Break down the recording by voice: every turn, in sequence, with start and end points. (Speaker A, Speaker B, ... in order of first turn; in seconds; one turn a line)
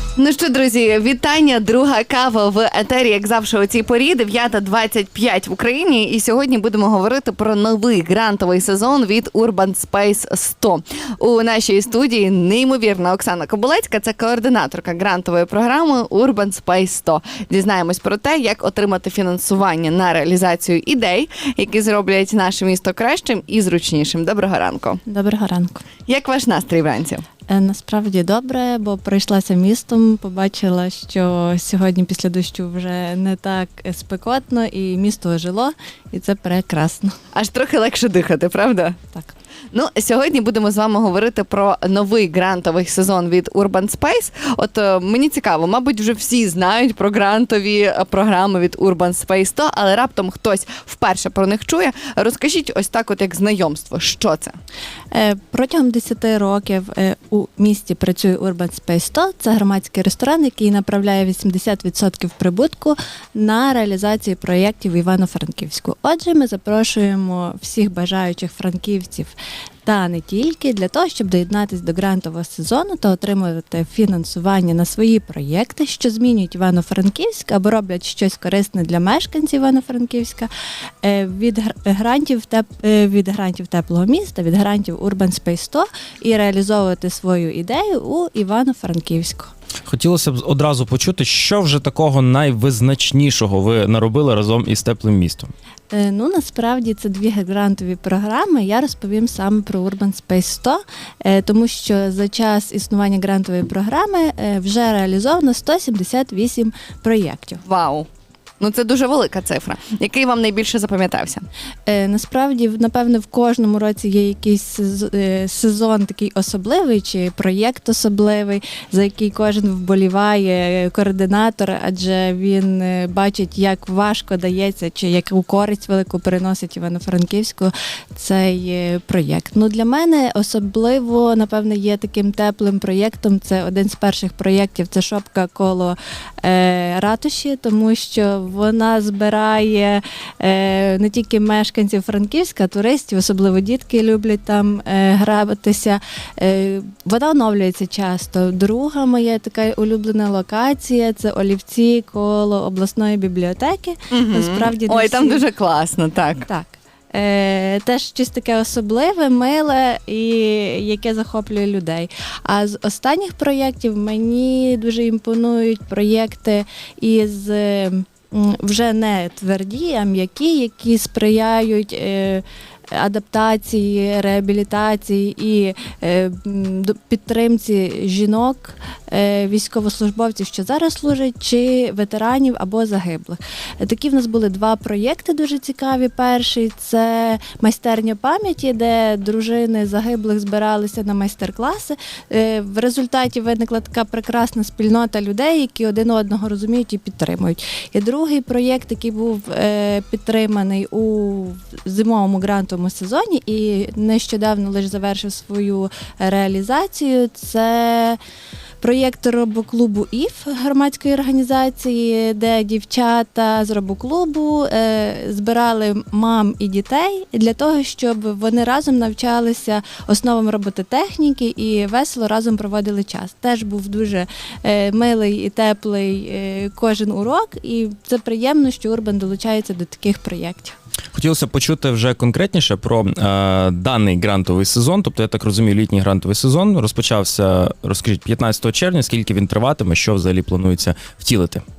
Speaker A: 0.2-25.0
Speaker B: 25.0-25.9
Speaker A: 26.1-27.2
Speaker B: 27.5-37.1
Speaker A: 37.3-39.0
Speaker A: 39.7-54.6
Speaker B: 55.1-80.5
Speaker B: 81.0-89.5
Speaker C: 89.9-95.5
Speaker B: 95.9-107.6
Speaker A: 107.6-108.1
Speaker A: 108.6-111.5
Speaker B: 111.9-155.4
Speaker A: 154.1-156.4
Speaker B: 156.4-208.2
Speaker B: 208.8-230.8
Speaker C: 231.1-241.6